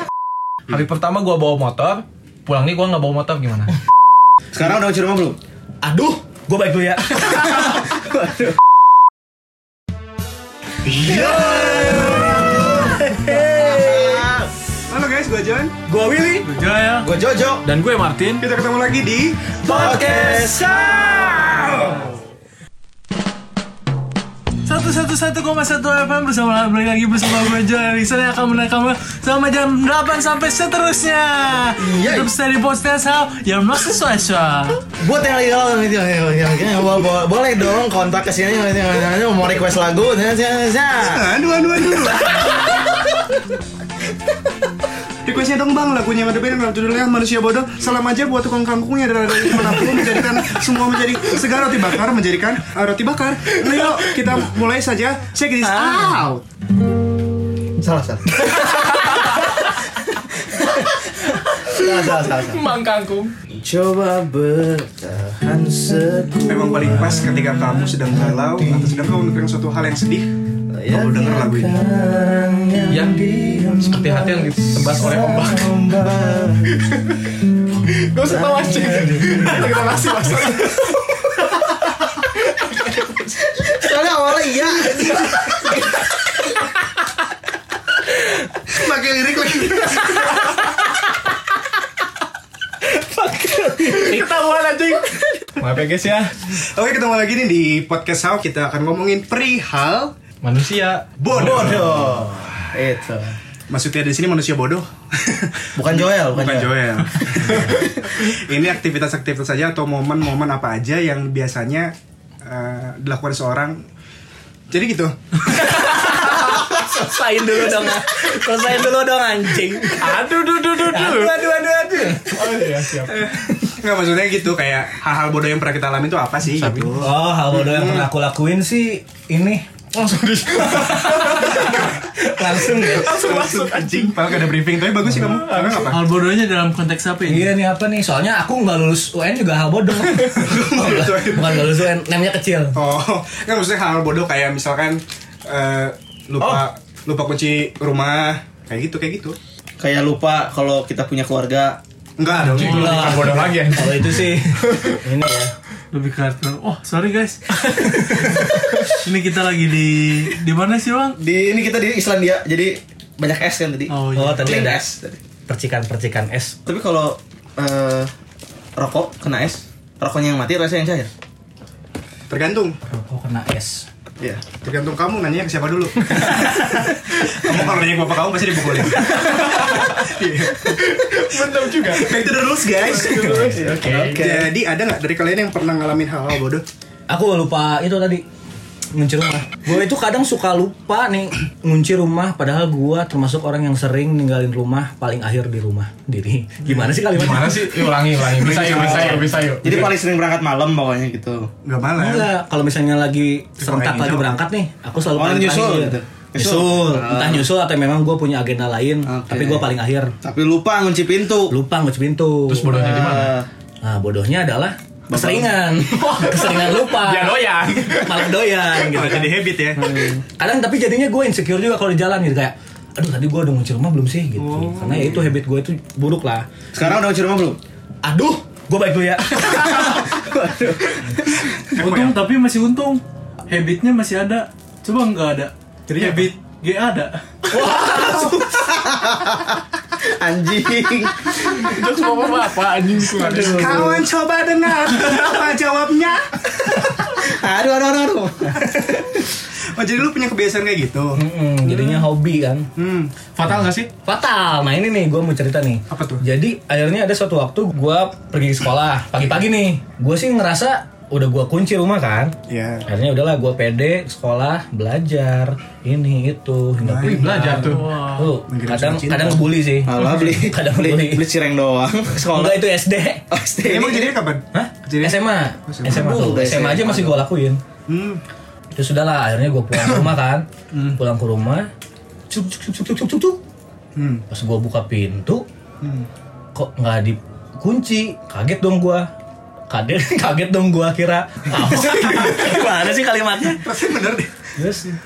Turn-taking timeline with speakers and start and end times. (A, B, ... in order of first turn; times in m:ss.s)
0:00.7-0:03.7 A
0:04.5-0:05.4 B
0:05.8-0:07.6 C
0:10.8-0:13.0 D
0:11.0-0:14.3 C
0:11.3-0:14.5 B
0:14.9-0:15.7 D
0:15.9-0:16.5 C
0:16.4-0:17.1 E
0:17.0-0:17.6 B
0:17.6-0:18.4 A
0:18.4-0:19.6 D
0:19.6-0:22.1 B
0:19.7-0:20.9 E
0:19.7-0:20.0 C
0:20.1-0:20.4 A
0:24.6-0:34.8 E
0:31.8-0:32.3 B
0:35.0-0:41.2 B
0:41.0-0:42.4 D
0:45.2-0:56.4 D
0:55.6-0:56.3 B
0:57.8-0:59.3 B
0:58.5-0:59.5 A
1:01.6-1:03.3 A
1:01.6-1:02.6 B
1:03.6-1:09.1 B
1:06.5-1:10.3 D
1:10.7-1:16.8 B
1:10.9-1:11.8 D
1:12.9-1:13.2 A
1:13.7-1:15.7 A
1:18.0-1:20.9 A
1:18.2-1:20.0 B
1:23.4-1:25.6 B
1:28.7-1:30.4 D
1:32.9-1:34.4 C
1:33.9-1:35.0 A
1:35.6-1:36.3 A
1:36.5-1:40.1 D
1:40.4-1:41.9 A
1:41.2-1:42.1 D
1:41.3-1:43.4 B
1:43.7-1:53.8 D
1:45.8-1:46.8 B
1:54.7-1:55.2 D
1:55.5-2:02.6 C
2:00.0-2:01.3 A
2:02.3-2:03.2 A
2:03.1-2:08.1 D
2:06.5-2:07.0 A
2:07.0-2:09.6 C
2:09.9-2:11.6 A
2:10.7-2:13.2 C
2:11.6-2:11.9 D
2:12.7-2:14.3 A
2:13.1-2:16.1 D
2:15.2-2:15.8 A
2:15.9-2:17.5 E
2:17.2-2:22.8 C
2:20.3-2:21.7 D
2:22.7-2:29.4 D
2:29.8-2:31.8 B
2:32.2-2:33.6 D
2:32.4-2:34.9 A
2:32.6-2:35.5 C
2:35.9-2:41.2 E
2:41.2-2:45.2 B
2:43.9-2:44.6 E
2:44.1-2:44.9 C
2:45.5-2:46.6 C
2:46.6-2:48.1 B
2:48.8-2:51.1 B
2:52.3-2:52.8 D
2:52.9-2:53.8 C
2:54.2-2:54.5 B
2:54.5-3:01.3 D
2:59.2-3:00.0 A
3:01.0-3:02.1 A
3:01.9-3:06.6 D
3:02.9-3:04.4 A
3:03.2-3:04.4 C
3:07.1-3:08.2 C
3:08.9-3:17.8 C
3:17.1-3:19.9 A
3:18.3-3:19.4 D
3:19.6-3:21.5 B
3:21.6-3:22.3 D
3:22.0-3:30.1 C
3:23.6-3:24.4 D
3:25.1-3:27.5 B
3:29.0-3:29.7 B
3:30.2-3:31.5 B
3:31.5-3:32.8 C
3:32.5-3:33.3 A
3:32.7-3:33.5 B
3:33.8-3:46.4 C
3:35.1-3:35.6 B
3:36.0-3:37.7 A
3:36.4-3:39.8 D
3:39.8-3:40.2 B
3:44.4-3:45.2 D
3:46.7-3:47.6 B
3:48.0-3:50.2 C
3:49.4-3:51.5 B
3:51.5-3:52.2 D
3:51.8-3:57.3 E
3:57.5-3:58.6 C
3:57.7-4:01.8 B
4:01.4-4:03.6 A
4:03.0-4:04.0 B
4:03.2-4:06.7 D
4:06.8-4:08.8 B
4:08.7-4:12.1 D
4:11.2-4:12.6 C
4:12.8-4:13.1 D
4:13.4-4:13.9 A
4:13.4-4:22.3 C
4:15.9-4:16.2 D
4:22.5-4:22.8 D
4:22.8-4:31.2 C
4:26.8-4:27.2 D
4:27.0-4:27.9 A
4:27.7-4:28.3 E
4:28.4-4:30.4 D
4:29.8-4:32.6 B
4:32.3-4:33.2 C
4:33.3-4:34.2 B
4:33.6-4:36.3 D
4:34.5-4:37.6 C
4:35.9-4:37.2 B
4:37.9-4:38.2 D
4:38.7-4:41.7 C
4:40.7-4:41.0 D
4:42.3-4:43.4 C
4:44.0-4:44.2 D
4:44.3-4:45.4 C
4:45.8-4:46.1 D
4:46.5-4:49.1 C
4:49.7-4:53.6 C
4:53.6-4:54.3 D
4:54.6-4:54.9 C